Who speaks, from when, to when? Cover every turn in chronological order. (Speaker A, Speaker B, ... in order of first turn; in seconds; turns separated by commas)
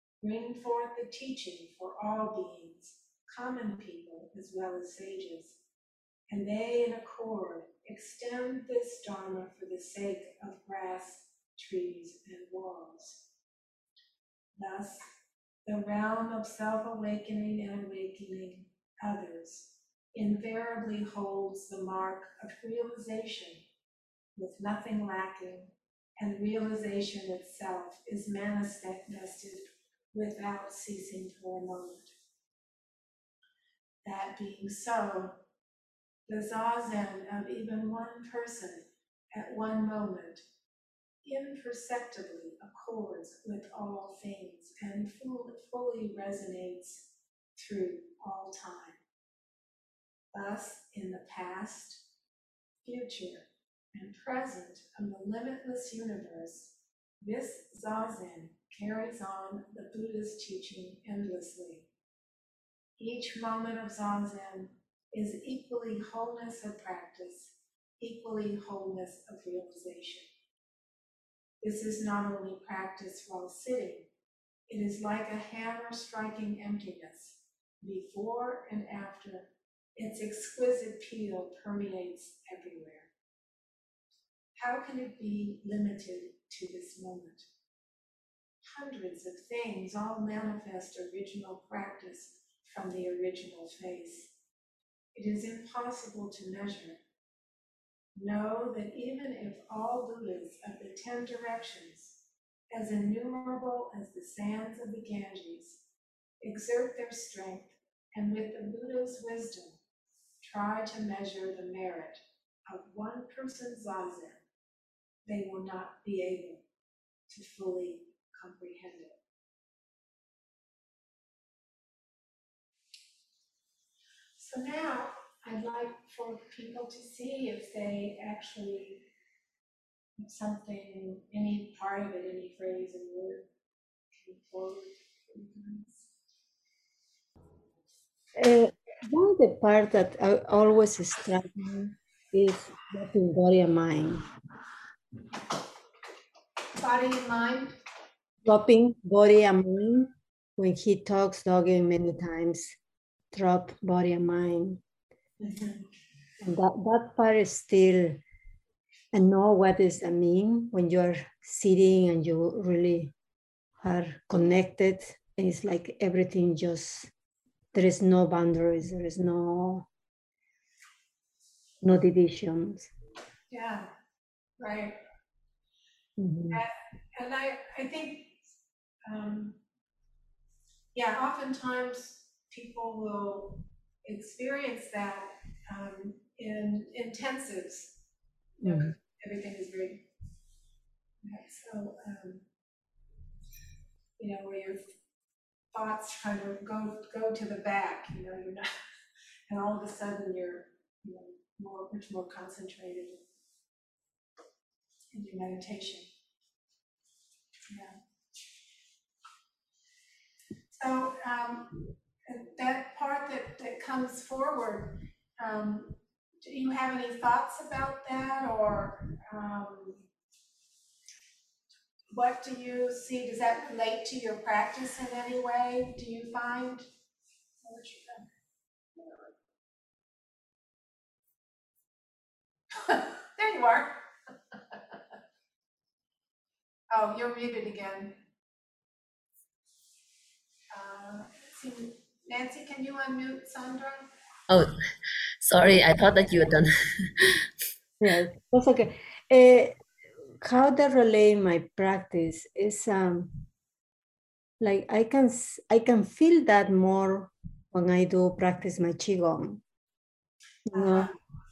Speaker A: 0.2-5.6, Speaker A: 6.3-13.2, Speaker A: 14.6-15.1, Speaker A: 15.6-23.6, Speaker A: 24.4-32.1, Speaker A: 34.0-35.4, Speaker A: 36.3-40.4, Speaker A: 41.2-49.0, Speaker A: 50.3-52.0, Speaker A: 52.8-61.9, Speaker A: 63.0-70.3, Speaker A: 71.6-74.1, Speaker A: 74.7-83.1, Speaker A: 84.6-87.5, Speaker A: 88.6-94.3, Speaker A: 95.1-97.0, Speaker A: 98.1-102.2, Speaker A: 102.7-105.8, Speaker A: 106.4-109.8, Speaker A: 110.4-114.4, Speaker A: 115.2-116.6, Speaker A: 117.3-119.2, Speaker A: 124.4-129.1, Speaker A: 130.2-133.5, Speaker A: 134.1-136.1, Speaker B: 138.3-144.2, Speaker A: 146.8-147.8, Speaker B: 148.4-152.8, Speaker B: 153.3-154.8, Speaker A: 155.4-155.8, Speaker B: 156.4-158.2, Speaker B: 159.1-163.1, Speaker B: 163.8-167.1, Speaker B: 167.7-169.9, Speaker B: 171.8-172.9, Speaker A: 173.5-173.9, Speaker A: 174.6-175.0, Speaker B: 176.2-176.6, Speaker A: 176.5-178.4, Speaker A: 179.1-179.6, Speaker A: 180.9-187.9, Speaker A: 188.6-190.1, Speaker B: 188.6-188.9, Speaker A: 191.2-192.4, Speaker A: 194.2-194.9, Speaker A: 195.7-198.7, Speaker A: 199.5-203.2, Speaker A: 205.1-206.1, Speaker A: 207.7-208.0, Speaker A: 210.7-220.0, Speaker A: 222.1-226.9, Speaker A: 227.6-228.3, Speaker A: 228.9-229.3, Speaker A: 232.7-234.0, Speaker A: 236.9-238.2, Speaker A: 240.7-244.1, Speaker C: 244.5-247.5, Speaker B: 248.0-249.8, Speaker B: 250.4-253.4, Speaker B: 254.6-259.6, Speaker B: 260.7-261.1, Speaker A: 260.7-261.1